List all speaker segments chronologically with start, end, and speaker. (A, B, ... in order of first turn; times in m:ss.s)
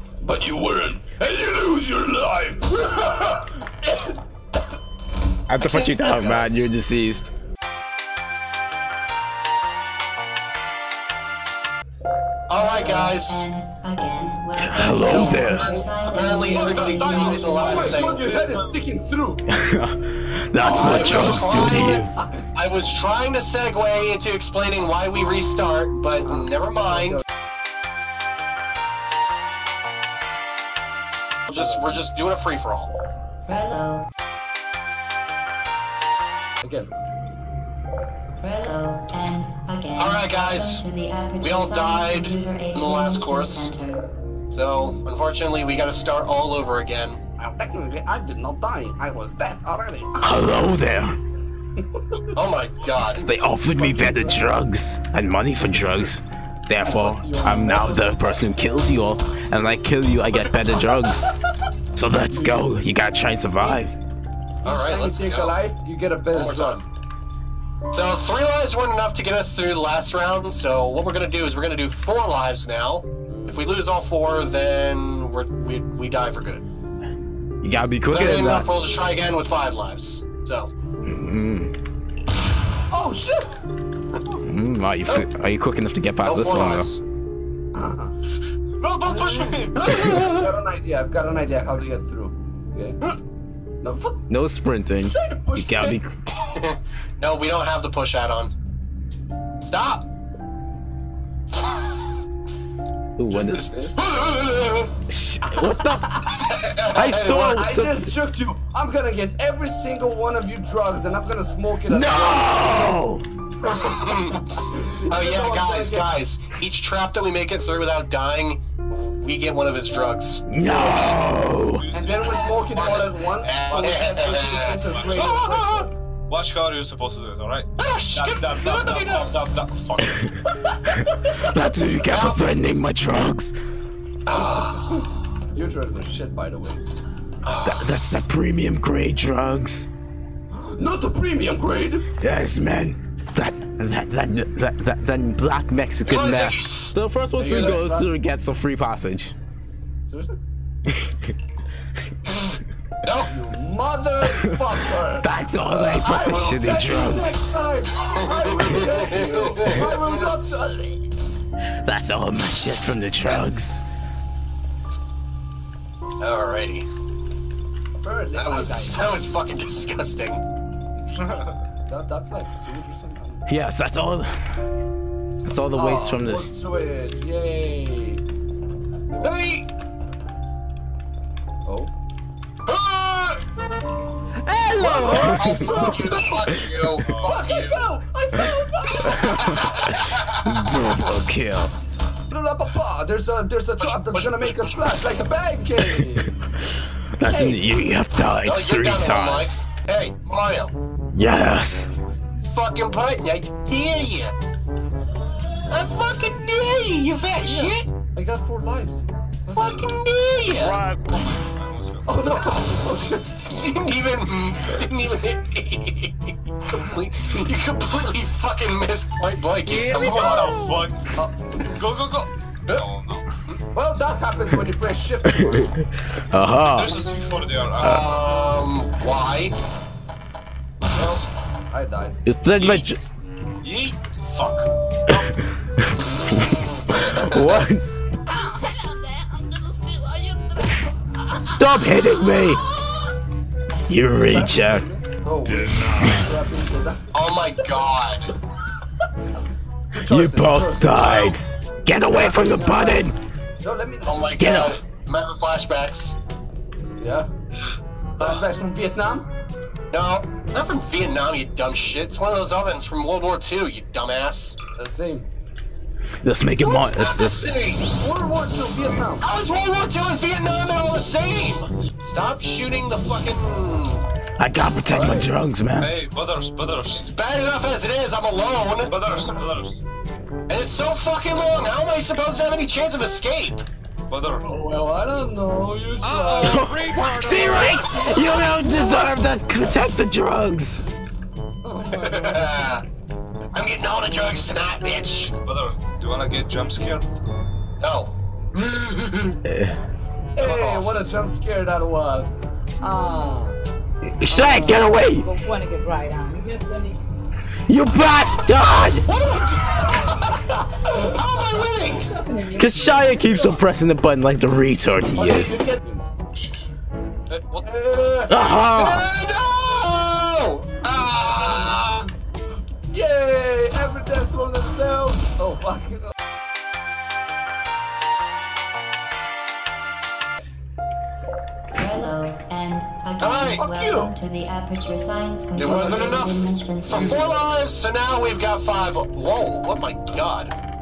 0:00.2-0:04.2 A
0:05.5-0:07.3 B
0:05.6-0:06.6 C
0:12.5-0:13.4 C
0:12.8-0:17.9 D
0:14.6-0:15.7 B
0:15.1-0:18.2 C
0:16.5-0:19.4 A
0:16.6-0:18.8 E
0:19.5-0:22.1 B
0:20.6-0:22.3 A
0:20.7-0:21.8 C
0:22.5-0:27.2 C
0:26.2-0:27.2 A
0:31.5-0:32.9 C
0:31.5-0:32.0 A
0:33.5-0:34.0 D
0:36.6-0:36.9 A
0:38.4-0:44.0 D
0:40.0-0:40.8 C
0:41.4-0:43.7 C
0:44.5-0:47.2 C
0:47.4-0:50.4 A
0:50.2-0:51.2 B
0:51.8-0:52.2 A
0:52.3-0:53.2 C
0:53.2-1:01.3 B
0:53.4-0:54.4 A
0:56.8-0:58.2 A
1:01.9-1:03.9 B
1:02.3-1:02.8 A
1:03.6-1:03.8 A
1:04.6-1:06.9 A
1:04.6-1:05.6 C
1:06.3-1:06.8 C
1:07.9-1:16.6 C
1:13.3-1:13.7 A
1:17.6-1:18.7 B
1:18.1-1:20.7 C
1:21.1-1:21.7 B
1:22.9-1:23.5 A
1:24.4-1:26.9 B
1:26.2-1:27.0 C
1:27.7-1:28.1 A
1:28.8-1:30.2 E
1:29.1-1:33.0 A
1:29.8-1:30.5 C
1:33.8-1:34.2 A
1:34.3-1:36.1 B
1:35.1-1:36.0 A
1:36.6-1:38.5 C
1:39.6-1:40.0 C
1:43.2-1:43.7 B
1:43.4-1:44.0 A
1:44.0-1:44.9 C
1:45.1-1:46.2 B
1:45.6-1:46.4 A
1:46.4-1:47.5 C
1:46.9-1:48.1 B
1:47.3-1:53.0 A
1:51.9-1:53.2 B
1:53.7-1:56.1 A
1:53.8-1:54.4 C
1:55.1-2:00.4 C
2:00.5-2:01.8 B
2:00.6-2:01.0 A
2:01.6-2:03.0 E
2:01.9-2:05.9 A
2:02.4-2:05.9 C
2:03.6-2:05.3 E
2:06.3-2:10.4 E
2:07.8-2:09.3 C
2:11.0-2:13.5 B
2:12.0-2:12.5 C
2:14.3-2:14.8 C
2:14.4-2:16.8 A
2:17.4-2:17.9 C
2:17.6-2:19.9 B
2:20.5-2:22.0 A
2:22.2-2:29.3 B
2:26.0-2:27.0 C
2:27.4-2:28.1 A
2:30.1-2:30.4 A
2:30.9-2:31.3 B
2:33.0-2:33.3 C
2:33.3-2:41.0 A
2:35.2-2:37.4 B
2:38.2-2:40.2 C
2:41.8-2:43.8 B
2:46.2-2:46.9 C
2:48.0-2:49.1 A
2:48.4-2:50.4 C
2:51.9-2:53.5 A
2:53.5-2:54.3 B
2:55.4-2:56.5 B
2:55.7-2:58.2 A
2:59.1-2:59.4 A
2:59.2-2:59.7 C
3:01.6-3:01.9 A
3:02.7-3:03.4 C
3:04.4-3:06.2 B
3:04.8-3:06.2 A
3:04.8-3:07.9 C
3:07.0-3:07.6 E
3:07.2-3:09.9 A
3:09.0-3:11.7 B
3:09.3-3:10.7 C
3:12.3-3:16.3 A
3:13.8-3:15.0 C
3:17.2-3:19.5 B
3:17.2-3:17.8 A
3:18.4-3:20.7 C
3:21.1-3:21.9 B
3:22.4-3:24.3 C
3:25.7-3:27.9 C
3:27.4-3:29.8 A
3:29.5-3:30.8 C
3:31.1-3:32.2 E
3:32.0-3:33.3 A
3:33.5-3:40.6 C
3:39.7-3:41.0 E
3:41.2-3:41.8 A
3:41.7-3:43.2 E
3:43.7-3:45.8 A
3:46.3-3:47.0 B
3:46.8-3:48.5 E
3:47.8-3:49.6 C
3:50.8-3:51.3 E
3:50.9-3:52.2 A
3:52.2-3:53.0 B
3:52.6-3:52.8 E
3:53.6-3:54.7 E
3:56.3-3:57.8 B
3:59.3-4:00.7 A
4:01.4-4:02.6 B
4:03.9-4:04.8 B
4:04.2-4:07.0 A
4:07.1-4:08.3 C
4:09.9-4:11.3 A
4:10.1-4:13.1 B
4:12.1-4:13.1 A
4:13.6-4:14.4 A
4:14.0-4:16.1 C
4:14.4-4:14.8 B
4:16.8-4:17.3 A
4:18.2-4:19.3 A
4:19.9-4:24.6 C
4:24.8-4:25.3 A
4:26.2-4:27.5 B
4:26.6-4:27.9 C
4:27.9-4:29.3 A
4:29.2-4:34.0 C
4:34.4-4:35.9 B
4:34.9-4:35.3 A
4:35.8-4:37.1 E
4:37.0-4:38.9 C
4:38.8-4:39.8 E
4:40.5-4:43.6 C
4:44.1-4:44.6 E
4:44.4-4:48.0 A
4:46.0-4:47.8 E
4:46.4-4:50.8 B
4:51.6-4:52.4 A
4:51.9-4:52.8 C
4:53.5-4:55.3 C
4:55.4-4:57.1 E
4:57.8-4:59.3 C
4:59.4-4:59.7 B
5:00.4-5:03.6 A
5:00.4-5:00.9 E
5:04.0-5:05.3 B
5:04.3-5:04.8 A
5:05.2-5:07.0 F
5:07.7-5:09.1 B
5:09.0-5:10.3 C
5:10.6-5:11.1 A
5:11.0-5:12.1 C
5:11.8-5:13.4 F
5:12.5-5:15.6 B
5:15.1-5:16.0 A
5:17.3-5:17.6 E
5:17.6-5:18.4 A
5:18.3-5:19.0 B
5:18.7-5:22.1 C
5:22.9-5:26.1 A
5:31.7-5:37.1 D
5:33.2-5:33.7 C
5:33.6-5:34.1 A
5:35.6-5:40.5 C
5:35.7-5:36.1 A